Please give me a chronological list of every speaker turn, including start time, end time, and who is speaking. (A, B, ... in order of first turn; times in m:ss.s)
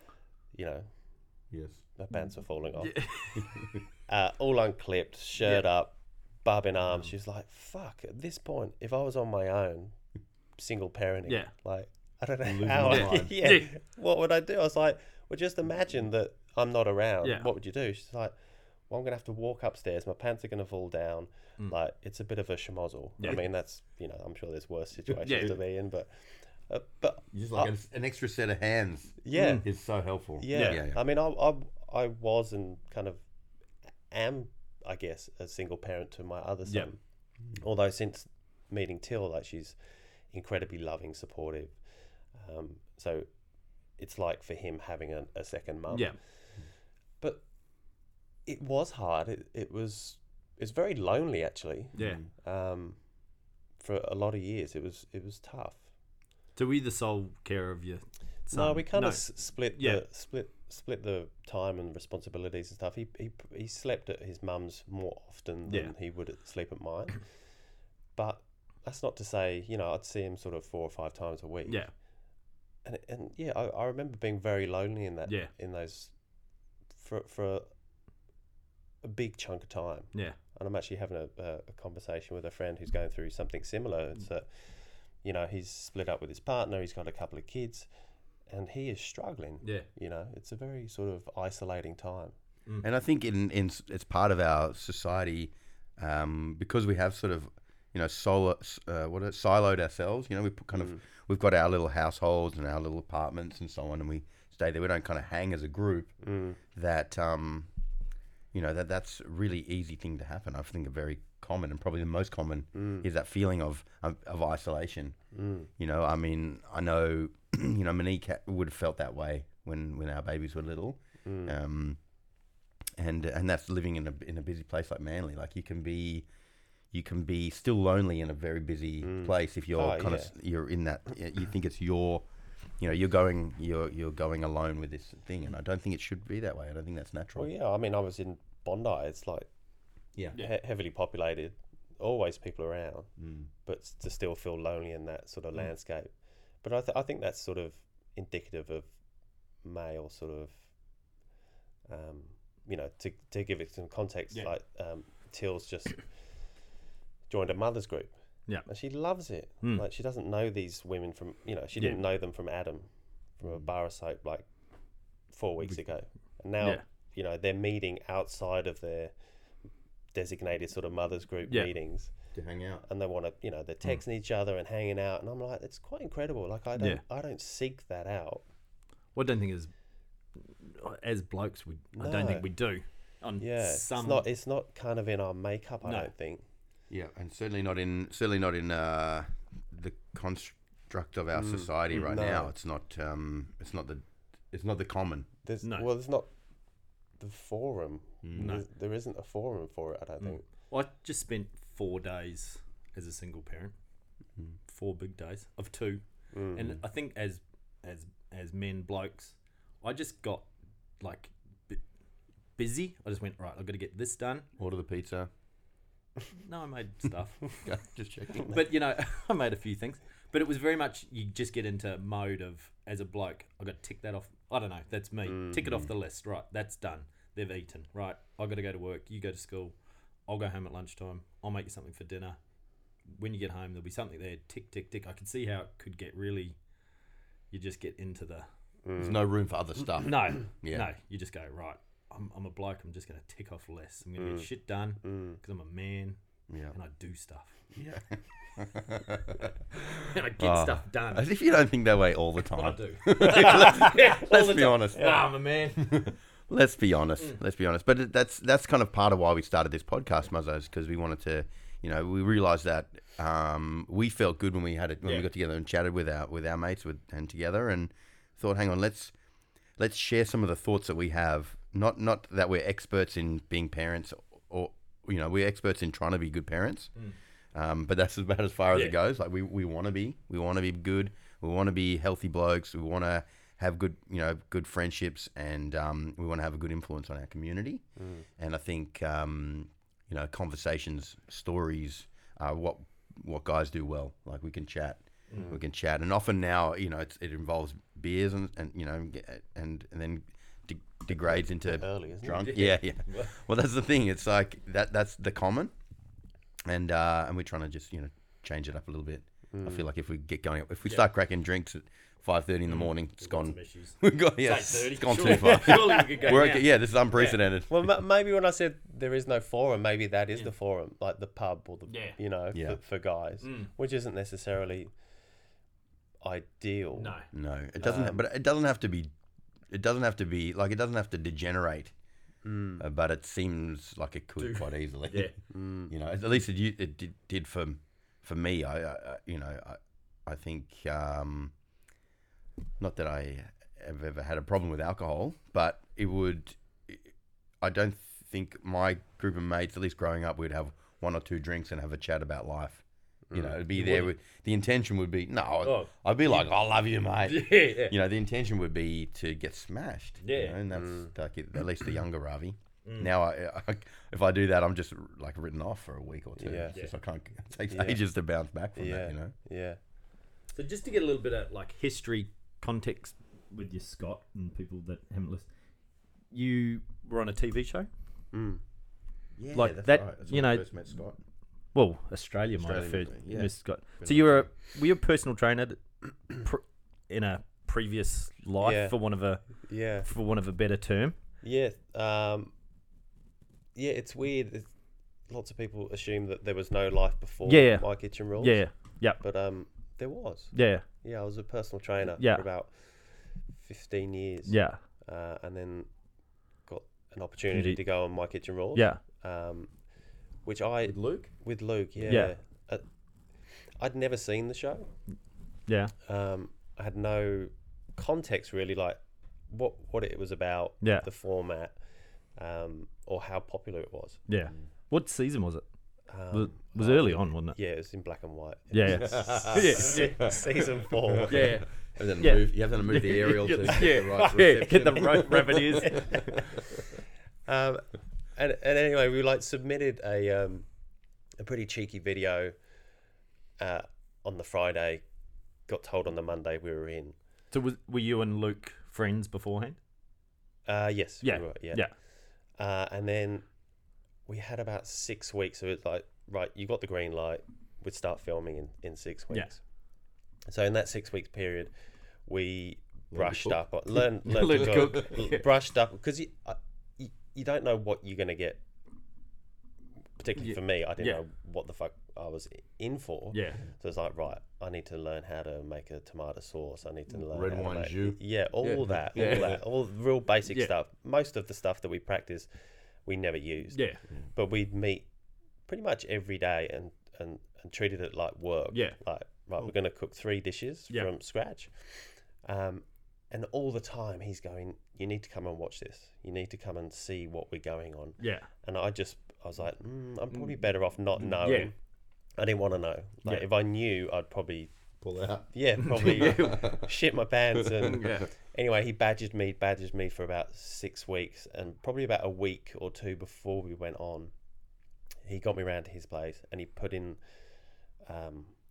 0:00.5-0:00.9 A
0:01.5-0:01.8 B
0:02.0-0:03.0 A
0:02.8-0:03.5 C
0:03.4-0:03.8 B
0:04.1-0:10.0 A
0:10.6-0:18.3 A
0:12.4-0:13.4 B
0:12.7-0:13.7 C
0:18.9-0:27.7 A
0:25.2-0:25.5 C
0:27.3-0:31.0 B
0:29.2-0:29.6 A
0:29.3-0:29.6 C
0:30.4-0:33.2 A
0:30.5-0:30.8 C
0:34.1-0:37.0 A
0:37.6-0:39.8 A
0:40.3-0:41.8 A
0:42.3-0:43.3 A
0:44.0-0:46.2 A
0:48.5-0:53.0 A
0:52.0-0:52.2 C
0:52.0-0:52.2 B
0:53.8-0:55.8 A
0:56.6-0:59.2 C
0:58.5-1:07.2 A
0:59.8-1:00.0 C
1:05.7-1:05.9 C
1:08.2-1:11.8 A
1:12.8-1:16.1 A
1:17.0-1:17.6 A
1:19.0-1:27.9 A
1:28.5-1:32.4 A
1:32.8-1:46.1 B
1:46.2-1:46.6 A
1:46.7-1:47.7 B
1:48.5-1:55.2 B
1:52.8-1:53.0 A
1:55.3-1:55.7 A
1:55.8-2:02.0 B
2:01.2-2:01.5 A
2:03.0-2:06.3 B
2:06.9-2:12.3 B
2:09.0-2:10.3 A
2:12.8-2:17.5 B
2:17.4-2:19.5 A
2:20.4-2:23.1 A
2:23.2-2:23.5 B
2:23.6-2:26.1 A
2:26.6-2:28.9 A
2:29.6-2:30.6 A
2:31.9-2:36.0 A
2:37.3-2:38.1 A
2:38.7-2:42.9 A
2:43.4-2:44.5 A
2:45.3-2:49.1 A
2:50.1-2:52.1 A
2:52.3-2:52.8 B
2:52.9-2:58.4 A
2:59.2-2:59.7 C
3:00.4-3:04.2 C
3:02.0-3:02.5 A
3:03.4-3:06.4 A
3:05.8-3:06.1 C
3:06.9-3:15.3 B
3:11.3-3:12.5 A
3:15.4-3:16.3 A
3:17.2-3:20.4 A
3:18.2-3:18.6 B
3:18.4-3:18.6 C
3:20.2-3:23.7 C
3:24.7-3:26.0 C
3:26.3-3:26.8 A
3:26.5-3:30.5 C
3:31.0-3:31.8 C
3:32.6-3:34.5 C
3:34.6-3:35.3 B
3:36.4-3:37.6 C
3:37.6-3:38.6 B
3:38.4-3:49.8 C
3:45.3-3:45.6 A
3:45.6-3:45.9 B
3:50.3-3:52.4 C
3:53.1-3:56.6 C
3:57.5-3:58.5 C
3:58.8-3:59.2 A
3:59.0-4:00.9 B
4:00.0-4:06.2 C
4:04.2-4:04.5 A
4:05.0-4:05.4 A
4:06.5-4:06.8 B
4:06.7-4:07.6 C
4:07.7-4:09.5 B
4:09.4-4:11.3 C
4:10.4-4:29.1 B
4:12.5-4:16.0 C
4:15.0-4:15.3 A
4:29.8-4:36.9 B
4:37.5-4:47.8 B
4:48.0-4:48.2 A
4:48.4-5:05.7 B
4:55.3-4:55.6 C
5:01.2-5:02.6 A
5:02.4-5:03.3 C
5:06.7-5:17.7 B
5:09.5-5:09.8 A
5:12.7-5:17.4 C
5:15.5-5:16.4 A
5:17.7-5:24.9 A
5:21.9-5:22.2 C
5:22.5-5:22.8 B
5:23.4-5:23.7 C
5:26.2-5:27.2 A
5:26.9-5:27.3 C
5:27.3-5:29.1 B
5:27.8-5:28.2 A
5:29.7-5:31.9 B
5:32.4-5:32.8 A
5:32.8-5:35.3 B
5:34.4-5:35.3 C
5:35.5-5:35.9 A
5:35.9-5:41.5 B
5:42.8-6:09.3 B
5:53.3-5:54.0 A
5:53.8-5:54.0 C
5:55.6-5:56.5 C
5:57.3-5:58.0 C
6:00.2-6:00.6 C
6:00.7-6:01.1 A
6:02.8-6:03.1 C
6:06.4-6:06.7 A
6:07.7-6:08.0 A
6:08.8-6:09.8 A
6:10.6-6:15.5 C
6:16.3-6:17.9 C
6:18.3-6:18.6 A
6:19.4-6:21.2 B
6:19.5-6:20.7 C
6:21.7-6:25.8 C
6:22.6-6:24.5 B
6:26.3-6:29.4 C
6:28.6-6:29.0 A
6:29.6-6:30.1 A
6:30.0-6:31.2 C
6:31.4-6:32.5 A
6:33.8-6:34.7 A
6:35.3-6:38.6 A
6:37.4-6:39.2 C
6:39.2-6:42.9 A
6:40.5-6:40.8 C
6:42.1-6:42.5 C
6:43.6-6:45.9 A
6:44.5-6:44.8 C
6:46.7-6:49.7 A
6:47.5-6:47.8 C
6:48.8-6:49.0 C
6:50.4-6:52.8 A
6:50.8-6:51.3 B
6:52.1-6:52.3 C
6:53.8-6:54.9 A
6:55.7-6:55.9 C
6:56.0-6:59.0 A
6:59.5-7:01.8 A
7:00.8-7:01.1 C
7:02.4-7:04.2 A
7:04.3-7:05.6 C
7:06.1-7:11.6 A
7:06.3-7:07.6 C
7:08.7-7:10.3 C
7:08.9-7:16.6 B
7:11.3-7:11.7 C
7:12.2-7:16.4 C
7:17.5-7:20.7 A
7:21.4-7:22.6 A
7:23.6-7:25.0 A
7:25.7-7:27.2 A
7:27.5-7:29.8 C
7:30.7-7:31.8 A
7:31.2-7:31.9 C
7:32.6-7:33.5 A
7:34.3-7:39.6 A
7:40.5-7:41.7 A
7:42.2-7:48.6 A
7:43.1-7:43.6 B
7:44.2-7:45.5 C
7:44.5-7:45.0 B
7:50.2-8:02.5 A
7:50.4-7:51.2 C
7:53.3-7:53.6 C
7:57.1-7:58.2 B
7:58.6-7:59.6 C
7:58.8-7:59.6 B
8:03.0-8:05.1 A
8:03.7-8:04.0 C
8:05.7-8:21.7 A
8:08.7-8:09.0 C
8:18.2-8:18.5 C
8:21.4-8:21.7 C
8:22.4-8:24.7 A
8:25.0-8:26.9 B
8:25.5-8:34.3 A
8:25.9-8:26.8 C
8:27.6-8:28.2 B
8:27.8-8:28.3 C
8:35.2-8:37.2 A
8:38.0-8:38.5 A